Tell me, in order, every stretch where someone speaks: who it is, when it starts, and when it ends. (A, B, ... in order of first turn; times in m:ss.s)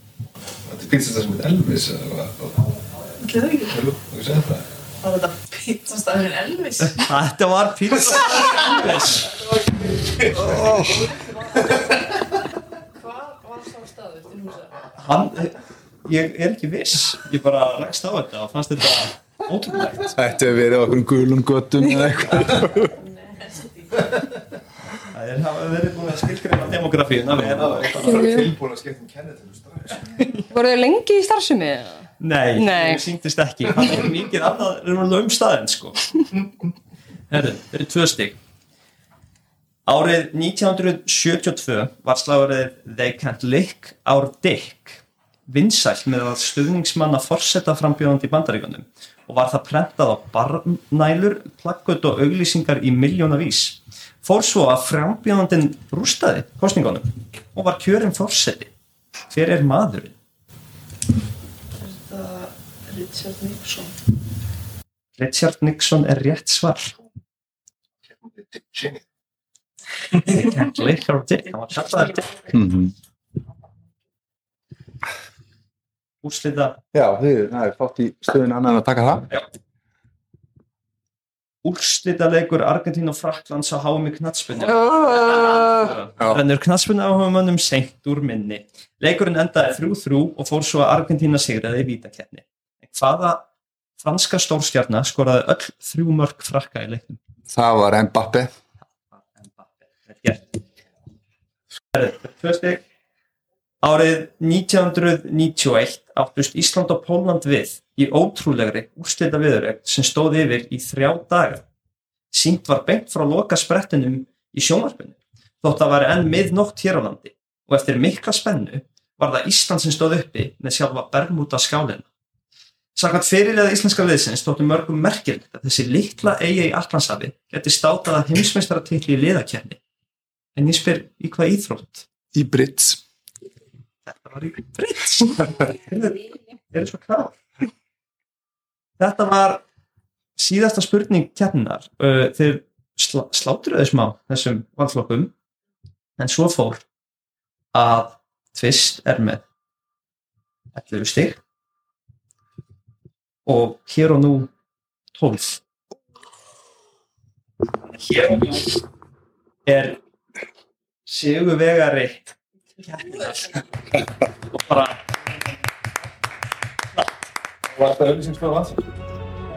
0:00.6-0:02.8 A
0:03.2-0:03.8 B
0:03.7-0:04.7 A
0:05.0-0:07.1 B
0:06.8-0:09.4 C
0:08.6-0:09.9 B
0:10.2-0:10.6 A
0:10.3-0:11.1 D
0:10.7-0:11.8 B
0:12.9-0:14.7 B
0:15.0-0:20.2 C
0:20.1-0:23.0 D
0:22.6-0:24.1 B
0:25.1-0:28.3 C
0:27.4-0:30.2 A
0:28.0-0:28.5 E
0:30.0-0:30.5 C
0:30.5-0:33.0 E
0:32.2-0:36.2 C
0:37.3-0:38.4 C
0:39.8-0:58.7 C
0:59.3-1:00.2 C
1:01.7-1:03.9 B
1:05.2-1:06.9 C
1:08.0-1:09.0 A
1:10.1-1:12.4 C
1:12.5-1:12.9 D
1:16.2-1:16.8 C
1:16.9-1:19.3 D
1:21.6-1:33.5 C
1:24.8-1:25.8 E
1:34.0-1:37.2 C
1:37.5-1:38.5 D
1:39.1-1:40.6 C
1:41.9-1:42.8 C
1:43.8-1:51.6 C
1:52.3-2:02.1 C
2:02.9-2:09.8 C
2:10.5-2:12.1 C
2:12.3-2:13.0 D
2:14.0-2:17.4 C
2:19.0-2:19.6 C
2:20.4-2:25.3 C
2:26.2-2:26.8 C
2:27.7-2:29.4 C
2:30.7-2:31.4 C
2:33.4-2:34.5 C
2:35.1-2:35.6 C
2:37.8-2:38.8 C
2:39.6-2:40.0 C
2:41.0-2:43.6 C
2:44.4-2:45.2 C
2:47.7-2:48.9 A